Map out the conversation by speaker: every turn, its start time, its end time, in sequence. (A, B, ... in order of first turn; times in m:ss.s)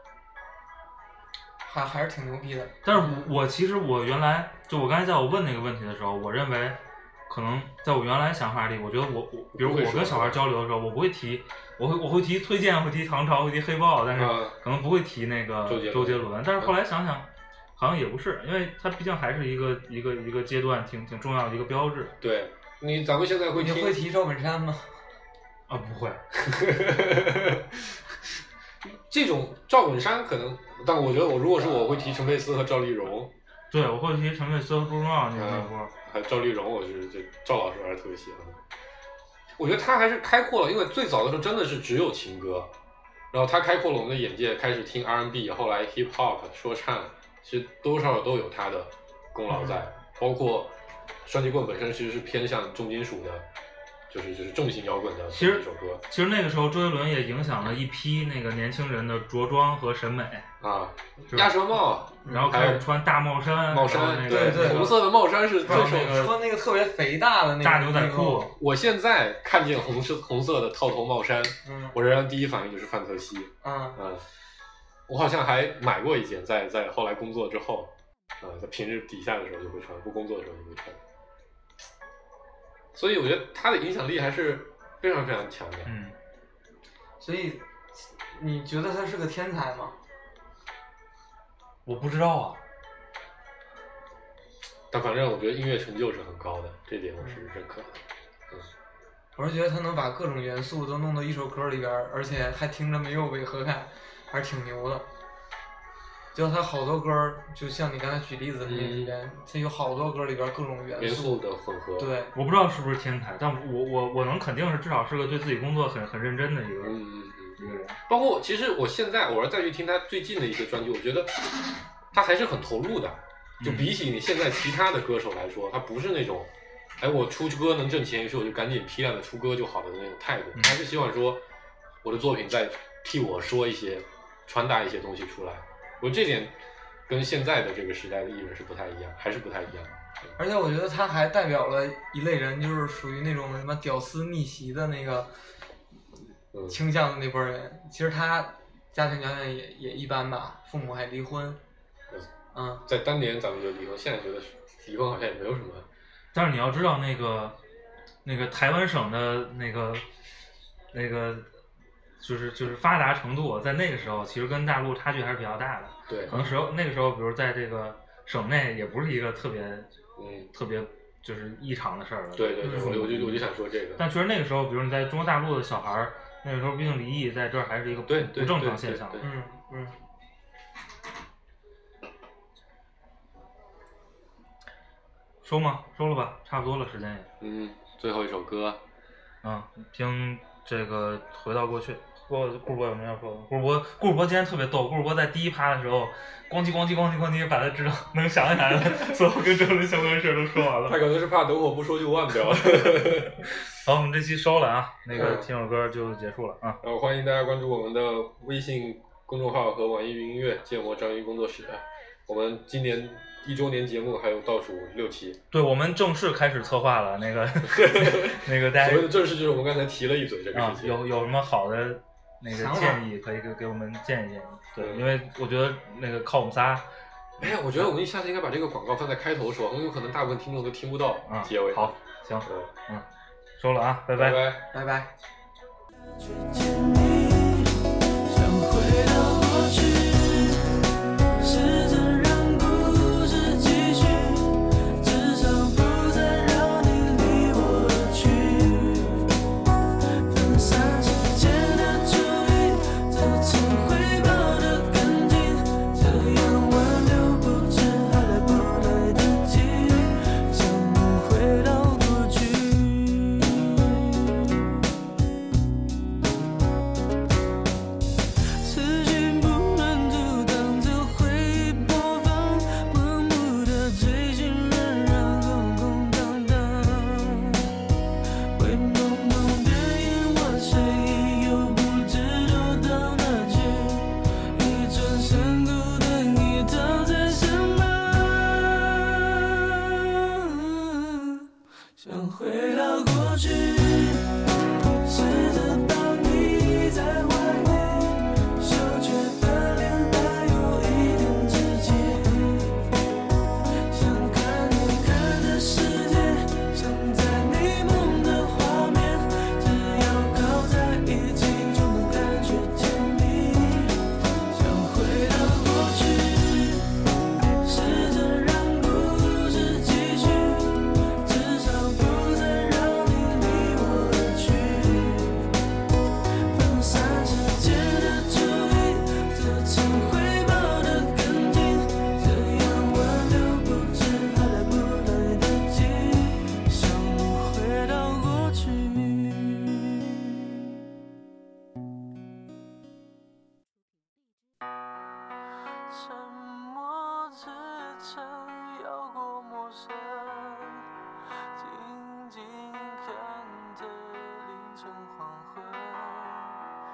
0:01.6-0:03.3 A
0:02.8-0:22.2 B
0:09.5-0:10.4 C
0:14.2-0:14.6 C
0:15.7-0:16.8 C
0:22.2-0:24.0 C
0:23.6-0:24.9 A
0:25.7-0:26.2 B
0:26.4-0:28.0 C
0:28.8-0:33.3 C
0:33.7-0:35.9 B
0:35.4-0:38.6 C
0:39.6-0:42.7 C
0:43.3-0:53.5 C
0:54.1-0:56.0 C
0:55.3-1:00.5 B
1:00.6-1:02.9 C
1:01.3-1:01.6 B
1:02.2-1:02.6 A
1:02.3-1:06.4 B
1:03.7-1:06.3 C
1:04.3-1:05.0 A
1:05.7-1:08.5 A
1:07.6-1:08.5 B
1:08.6-1:14.2 C
1:11.6-1:12.0 A
1:13.6-1:14.0 A
1:15.1-1:21.0 C
1:22.9-1:25.9 C
1:25.9-1:26.2 B
1:27.2-1:30.0 A
1:31.9-1:32.6 B
1:34.9-1:38.7 C
1:37.2-1:37.5 A
1:39.4-1:45.1 A
1:46.3-1:51.4 A
1:48.6-1:49.1 C
1:51.0-1:52.1 C
1:52.0-1:52.3 A
1:52.4-1:57.0 B
1:56.8-2:01.5 C
1:57.6-1:58.0 B
2:02.1-2:11.4 C
2:03.6-2:03.9 B
2:12.0-2:16.6 C
2:17.1-2:20.4 C
2:20.4-2:25.3 A
2:26.5-2:26.8 C
2:26.7-2:31.6 A
2:32.5-2:32.8 A
2:32.9-2:35.9 C
2:36.3-2:37.6 B
2:38.2-2:40.0 B
2:40.9-2:41.5 B
2:42.2-2:49.9 B
2:46.1-2:46.4 C
2:46.3-2:46.6 A
2:50.2-2:50.5 C
2:50.5-2:59.2 B
2:52.4-2:54.0 C
2:52.6-2:53.0 A
2:58.1-2:59.3 C
2:59.2-2:59.9 A
3:05.4-3:07.3 B
3:07.4-3:08.8 C
3:09.4-3:21.0 B
3:20.7-3:23.6 C
3:22.5-3:26.8 B
3:25.1-3:25.5 C
3:26.8-3:35.4 C
3:35.5-3:39.1 B
3:37.7-3:41.0 C
3:40.5-3:46.9 B
3:42.5-3:43.0 A
3:44.8-3:45.1 C
3:47.4-3:47.9 B
3:47.4-3:52.7 C
3:51.3-3:53.1 B
3:53.6-3:54.4 B
3:54.1-3:54.6 C
3:54.7-3:55.1 A
3:56.0-4:00.9 D
4:01.4-4:09.3 D
4:10.1-4:24.7 D
4:28.5-4:37.8 D
4:38.4-4:54.5 D
4:55.0-5:02.9 D
5:03.8-5:17.0 D
5:17.6-5:25.5 D
5:26.4-5:40.7 D
5:45.9-5:56.7 D